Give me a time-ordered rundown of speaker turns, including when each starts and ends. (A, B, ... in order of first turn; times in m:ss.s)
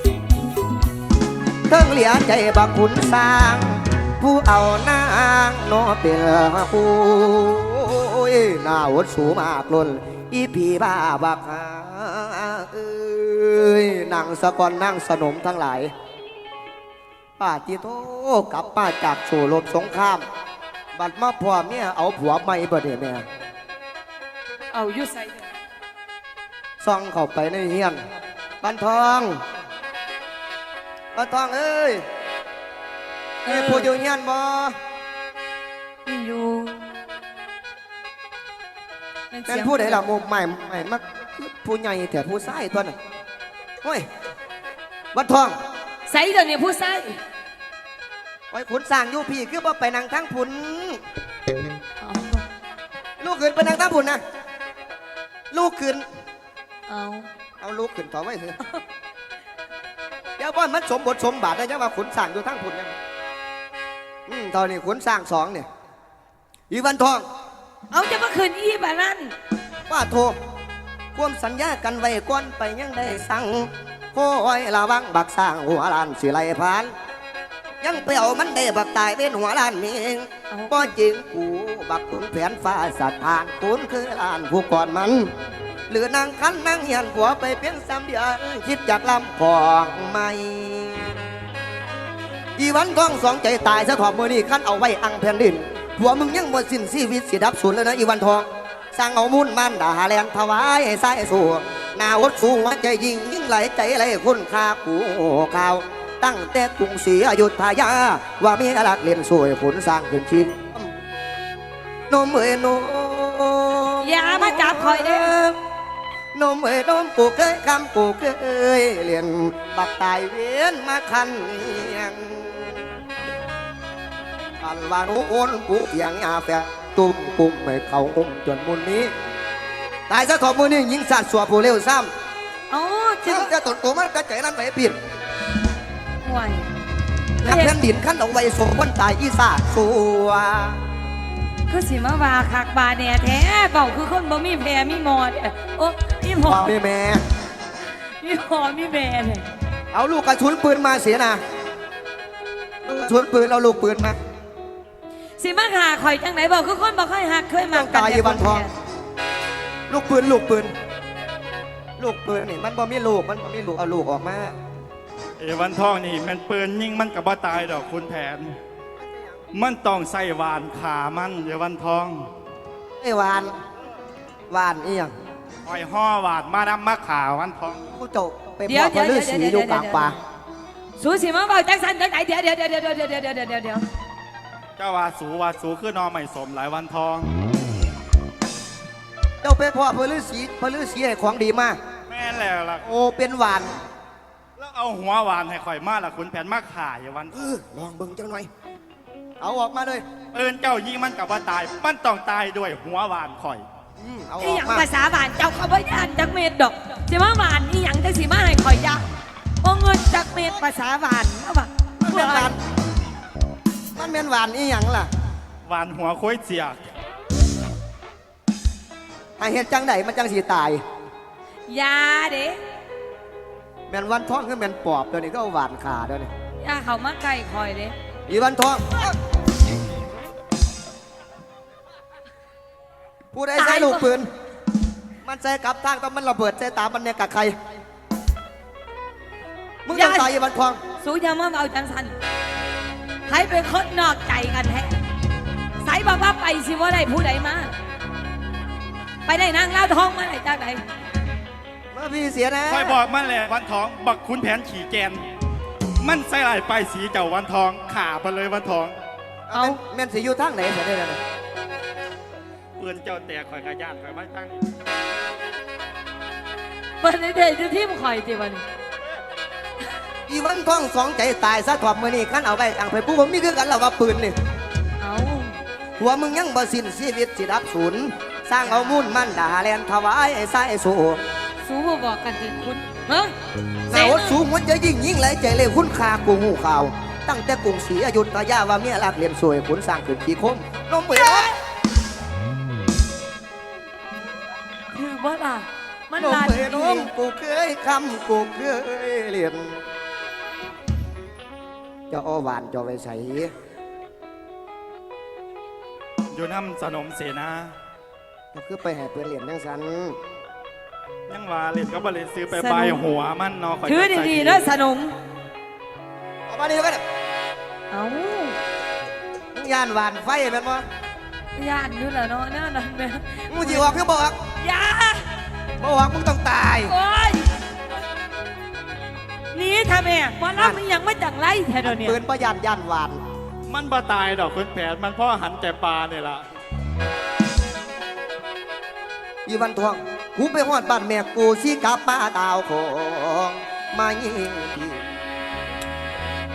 0:01.7-0:15.9 A
0:17.4-0:20.2 A
0:20.9-0:23.2 A
0:24.7-0:25.4 B
0:26.8-0:28.0 A
0:28.6-0:29.4 A
0:31.1-0:32.0 A
0:33.4-0:33.9 B
0:33.5-0:34.8 A
0:36.0-0:36.8 B
0:39.3-0:40.1 B
0:39.5-0:43.0 A
0:45.1-0:45.5 A
0:46.1-0:47.2 B
0:48.5-0:51.0 A
0:52.0-0:52.4 B
0:53.2-0:54.2 A
0:55.5-0:56.0 A
0:56.9-0:57.3 B
0:57.6-0:58.6 A
1:00.4-1:02.9 A
1:04.3-1:05.7 A
1:06.7-1:07.2 A
1:07.9-1:09.3 B
1:09.9-1:10.4 A
1:11.1-1:16.9 A
1:17.8-1:25.3 A
1:20.5-1:20.9 B
1:25.9-1:31.1 A
1:32.6-1:50.9 A
1:52.1-1:55.6 A
1:54.0-1:55.3 B
1:56.3-2:02.8 A
2:04.6-2:09.1 A
2:10.1-2:12.1 A
2:12.7-2:13.5 B
2:13.2-2:15.0 A
2:16.2-2:16.7 B
2:17.4-2:17.7 B
2:17.4-2:20.8 A
2:21.7-2:26.7 B
2:26.4-2:27.2 A
2:28.2-2:29.4 B
2:29.9-2:31.4 A
2:32.8-2:34.2 A
2:35.4-2:38.7 B
2:37.7-2:38.6 A
2:39.9-2:40.7 A
2:42.0-2:44.5 A
2:45.4-2:48.6 C
2:49.5-2:52.3 C
2:53.0-2:53.5 A
2:54.5-2:55.1 A
2:55.6-2:57.8 C
2:57.7-3:00.2 A
2:58.7-3:00.1 B
3:01.0-3:03.8 B
3:04.8-3:07.3 C
3:09.4-3:11.8 A
3:12.1-3:12.8 C
3:12.8-3:13.7 A
3:14.6-3:17.4 C
3:17.3-3:18.5 A
3:19.4-3:20.0 A
3:20.3-3:23.6 C
3:24.0-3:24.8 A
3:24.4-3:29.0 B
3:29.6-3:32.5 B
3:32.0-3:32.6 A
3:33.9-3:35.1 A
3:35.6-3:36.9 C
3:39.4-3:40.8 A
3:41.7-3:42.6 B
3:43.9-3:46.3 A
3:46.6-3:47.9 B
3:48.3-3:49.1 A
3:53.3-3:54.3 A
3:53.6-3:54.1 B
3:55.2-3:57.6 A
3:59.8-4:00.8 A
3:59.9-4:00.3 B
4:01.0-4:02.1 B
4:03.3-4:04.9 B
4:05.8-4:07.7 B
4:09.2-4:10.8 B
4:11.9-4:13.0 A
4:12.7-4:15.2 C
4:16.0-4:19.0 C
4:19.5-4:21.2 A
4:19.5-4:19.8 B
4:22.8-4:24.6 C
4:27.0-4:28.6 B
4:30.3-4:34.3 A
4:35.0-4:35.6 B
4:36.0-4:41.2 A
4:41.6-4:43.3 B
4:43.9-4:51.5 A
4:43.9-4:44.4 B
4:51.1-4:51.5 B
4:54.9-4:57.1 B
4:56.1-4:59.8 A
5:02.1-5:03.5 A
5:06.3-5:07.7 C
5:08.5-5:10.2 A
5:11.3-5:14.7 C
5:12.5-5:13.0 B
5:13.8-5:15.1 B
5:16.5-5:17.0 A
5:17.9-5:18.6 B
5:19.5-5:20.8 A
5:21.6-5:23.9 B
5:23.5-5:24.3 A
5:24.6-5:25.3 B
5:25.8-5:26.9 A
5:26.8-5:27.5 B
5:29.5-5:32.2 B
5:30.5-5:30.8 A
5:31.8-5:33.2 A
5:33.7-5:36.4 C
5:39.4-5:45.0 A